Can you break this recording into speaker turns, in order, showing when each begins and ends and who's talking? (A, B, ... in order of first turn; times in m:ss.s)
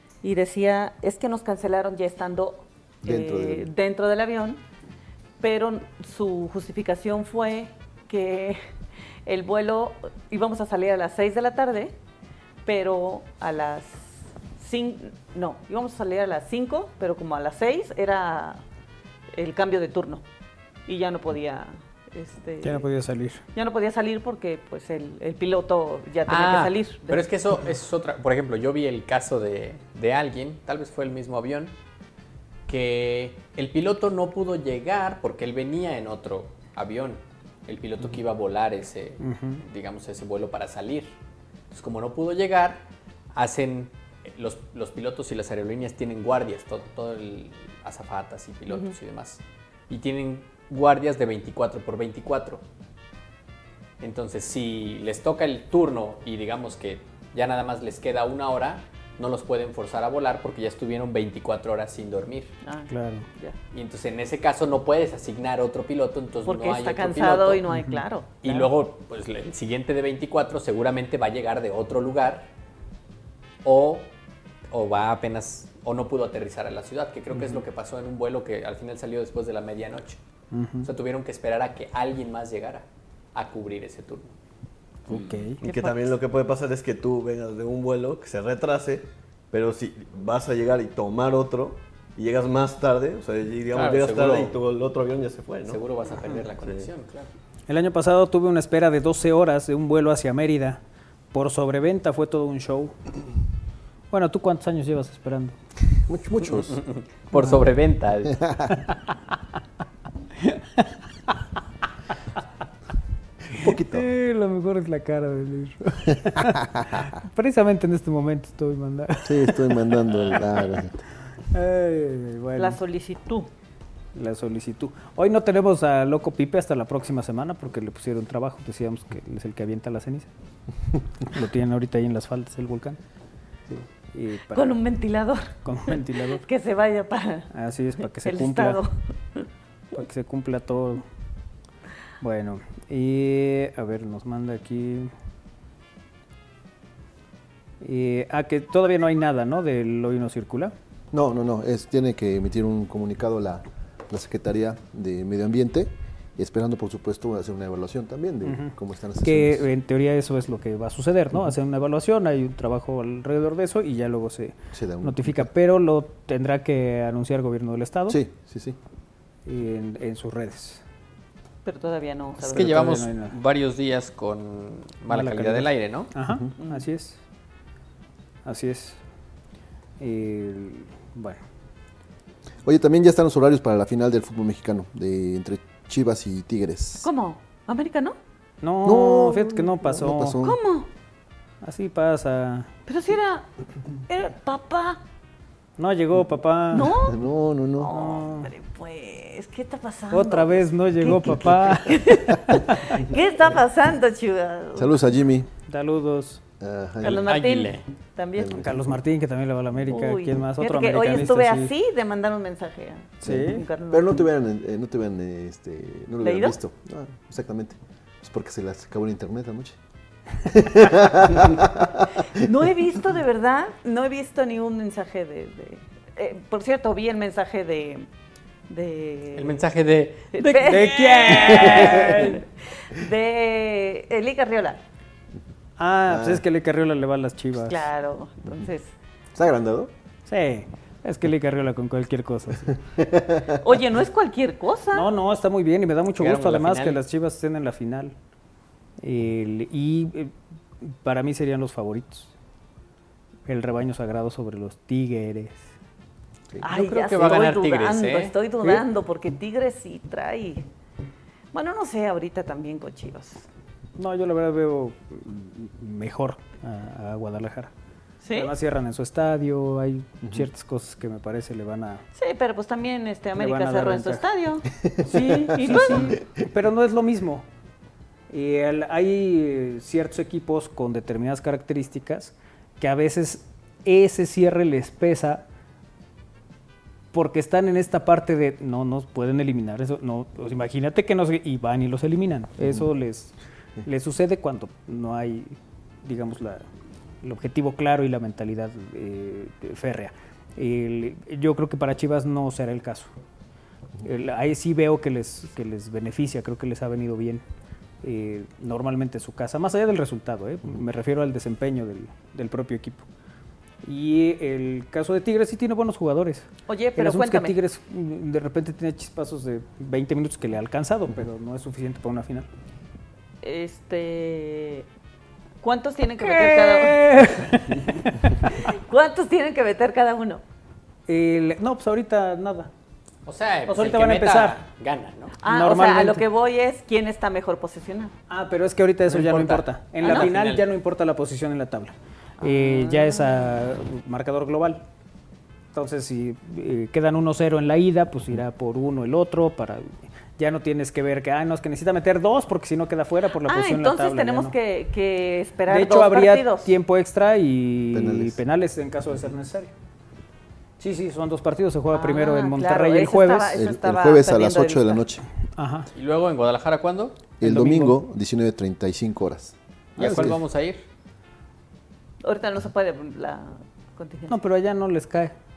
0:00.2-0:04.6 A
0:03.0-0:03.7 B
0:05.4-0:08.6 A
0:09.2-0:11.9 A
0:12.6-0:18.6 A
0:19.3-0:20.2 A
0:20.9-0:22.8 A
0:22.6-0:23.4 C
0:23.5-0:27.3 A
0:26.3-0:31.7 D
0:32.7-0:41.1 D
0:39.2-0:39.6 C
0:41.7-0:42.8 D
0:43.3-0:52.6 D
0:48.7-0:48.9 A
0:54.0-1:02.5 D
1:02.6-1:03.6 A
1:02.9-1:03.3 C
1:03.7-1:07.6 D
1:06.4-1:08.7 A
1:07.7-1:08.0 C
1:08.4-1:12.5 D
1:13.6-1:14.1 D
1:14.7-1:20.2 D
1:17.3-1:17.6 C
1:20.5-1:20.9 C
1:20.8-1:24.3 D
1:25.1-1:25.6 C
1:25.6-1:35.8 E
1:25.6-1:26.0 A
1:33.7-1:34.6 D
1:35.7-1:37.3 D
1:36.6-1:36.9 E
1:37.7-1:40.8 C
1:41.3-1:42.9 C
1:44.1-1:45.6 C
1:46.0-1:46.8 B
1:46.4-1:48.6 D
1:47.3-1:47.6 C
1:50.4-1:50.9 C
1:53.5-1:54.1 B
1:53.6-1:59.9 C
1:59.2-2:01.0 B
2:01.5-2:02.8 C
2:02.6-2:03.5 A
2:04.1-2:10.3 C
2:11.2-2:13.0 C
2:13.7-2:14.7 C
2:14.5-2:17.5 A
2:15.6-2:16.4 C
2:17.5-2:18.8 C
2:18.2-2:19.5 A
2:19.9-2:21.0 C
2:22.2-2:25.1 C
2:27.8-2:30.7 C
2:31.1-2:39.7 B
2:38.4-2:48.2 C
2:44.7-2:45.5 B
2:48.1-2:48.8 B
2:49.4-2:50.8 C
2:51.6-2:52.9 A
2:52.4-2:56.1 D
2:52.5-2:53.3 C
2:55.1-2:57.2 C
2:58.4-2:59.0 C
3:00.0-3:01.4 C
3:02.6-3:07.1 B
3:07.0-3:08.2 A
3:08.6-3:10.4 C
3:08.8-3:10.6 B
3:10.4-3:10.9 A
3:11.6-3:12.7 C
3:12.9-3:13.5 A
3:14.1-3:15.0 A
3:15.8-3:16.9 C
3:16.7-3:17.2 A
3:17.0-3:17.9 B
3:17.8-3:24.9 A
3:17.9-3:18.5 C
3:20.1-3:22.8 C
3:24.8-3:25.5 B
3:25.6-3:26.4 C
3:26.6-3:27.4 B
3:27.0-3:28.7 A
3:27.0-3:27.8 D
3:28.4-3:28.9 B
3:28.5-3:31.7 C
3:29.8-3:34.2 A
3:33.2-3:33.6 C
3:33.2-3:39.8 B
3:36.2-3:36.6 A
3:40.4-3:42.4 B
3:42.3-3:48.1 A
3:48.7-3:49.6 A
3:49.4-3:52.2 D
3:50.3-3:54.8 A
3:50.6-3:52.4 C
3:55.8-3:57.9 C
3:56.1-3:56.4 B
3:57.6-3:58.9 A
3:59.3-3:59.9 B
4:00.3-4:02.7 C
4:02.9-4:03.7 B
4:03.6-4:05.1 A
4:04.9-4:08.1 C
4:06.2-4:07.0 D
4:09.0-4:12.3 C
4:13.5-4:15.6 C
4:16.6-4:20.6 A
4:16.6-4:18.3 D
4:21.5-4:23.4 A
4:24.0-4:27.7 C
4:28.2-4:28.5 A
4:28.3-4:32.0 C
4:32.2-4:34.7 A
4:33.4-4:34.2 C
4:34.9-4:36.1 B
4:35.0-4:37.4 C
4:35.2-4:36.2 A
4:38.3-4:45.4 C
4:47.1-4:56.6 C
4:57.2-5:03.1 C
5:04.0-5:07.4 C
5:08.0-5:13.0 C
5:13.8-5:22.5 C
5:16.7-5:17.6 A
5:23.4-5:24.8 A
5:25.6-5:27.3 A
5:26.2-5:28.5 C
5:28.4-5:30.4 A
5:31.1-5:32.7 C
5:33.2-5:35.4 D
5:33.7-5:34.6 C
5:35.4-5:38.1 A
5:35.4-5:36.2 C
5:38.3-5:44.8 C
5:39.1-5:40.6 D
5:40.0-5:40.3 A
5:42.4-5:43.5 A
5:45.7-5:54.5 C
5:53.4-5:56.8 A
5:55.7-5:59.7 C
5:57.9-5:58.4 B
6:00.8-6:03.6 C
6:01.9-6:05.0 A
6:03.5-6:05.2 B
6:05.6-6:05.9 C
6:05.9-6:07.2 D
6:07.4-6:10.4 B
6:07.4-6:08.0 C
6:10.0-6:10.8 D
6:10.0-6:10.3 C
6:12.2-6:14.4 A
6:14.3-6:15.3 C